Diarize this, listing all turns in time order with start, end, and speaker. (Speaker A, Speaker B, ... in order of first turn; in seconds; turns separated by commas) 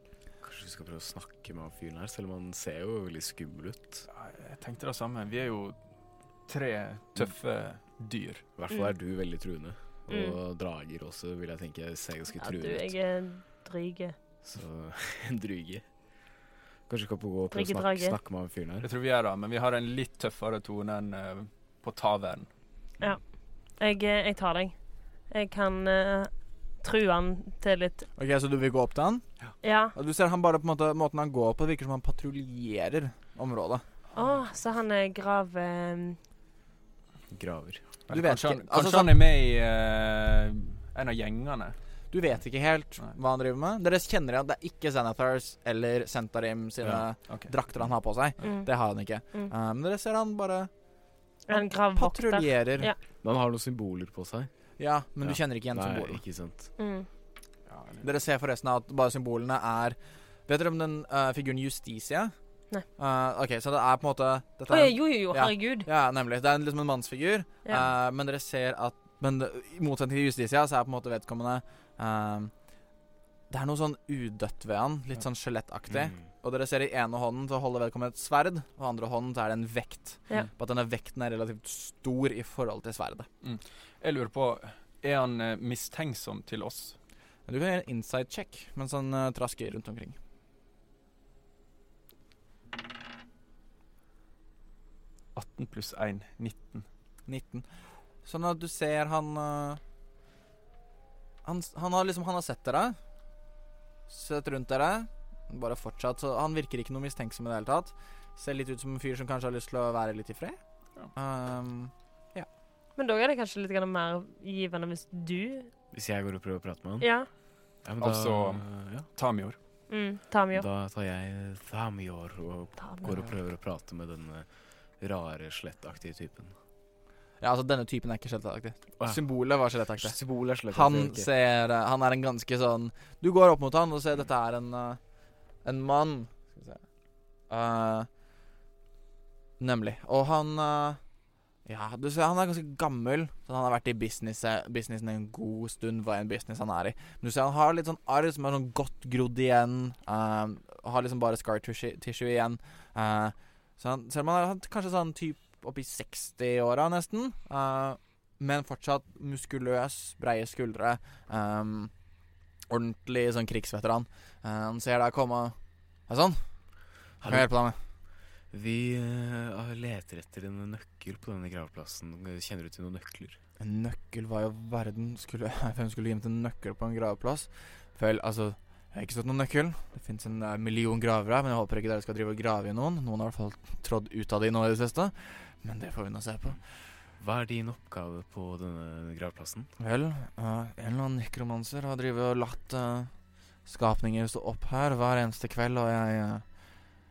Speaker A: 0.4-4.1, Speaker B: 4.1-5.8, Speaker B: 6.5-8.4, Speaker A: 8.6-12.9, Speaker C: 10.1-10.3, Speaker C: 12.4-14.2, Speaker A: 14.4-15.8, Speaker A: 16.9-18.9, Speaker C: 17.5-18.1, Speaker B: 18.8-22.5, Speaker C: 23.8-24.7, Speaker C: 25.3-28.1, Speaker D: 28.2-29.2, Speaker C: 29.6-29.9, Speaker D: 29.9-33.8, Speaker C: 34.1-36.2, Speaker A: 37.3-37.8, Speaker B: 38.1-41.8, Speaker D: 38.1-39.3, Speaker D: 42.1-50.7, Speaker C: 51.5-53.0, Speaker D: 51.5-52.9, Speaker A: 53.2-54.5, Speaker D: 54.8-56.2, Speaker A: 55.2-56.7, Speaker C: 56.8-57.1, Speaker B: 57.7-58.0, Speaker D: 58.0-62.3, Speaker D: 63.0-72.5, Speaker C: 64.7-65.9, Speaker D: 73.5-83.3, Speaker A: 75.9-76.2, Speaker B: 83.4-87.0, Speaker D: 87.5-90.2, Speaker B: 95.3-96.8, Speaker D: 97.3-97.7, Speaker D: 98.2-99.8, Speaker D: 101.4-103.0, Speaker D: 104.1-110.6, Speaker D: 111.1-112.5, Speaker C: 113.0-115.7, Speaker A: 115.9-117.1, Speaker C: 117.0-117.3, Speaker A: 117.8-119.1, Speaker B: 118.0-119.6, Speaker C: 119.9-120.7, Speaker A: 120.5-124.5, Speaker C: 122.8-123.1, Speaker A: 125.0-126.5, Speaker D: 127.4-130.2, Speaker A: 130.0-131.3, Speaker D: 130.7-135.0, Speaker D: 135.6-136.8, Speaker D: 137.5-138.1, Speaker D: 139.6-141.0, Speaker D: 141.7-161.9, Speaker D: 162.7-165.6, Speaker D: 166.1-166.4, Speaker A: 167.2-167.5, Speaker D: 167.2-167.8, Speaker A: 168.5-173.4, Speaker D: 173.6-186.6, Speaker A: 187.2-189.7, Speaker D: 189.8-193.1, Speaker D: 193.7-196.4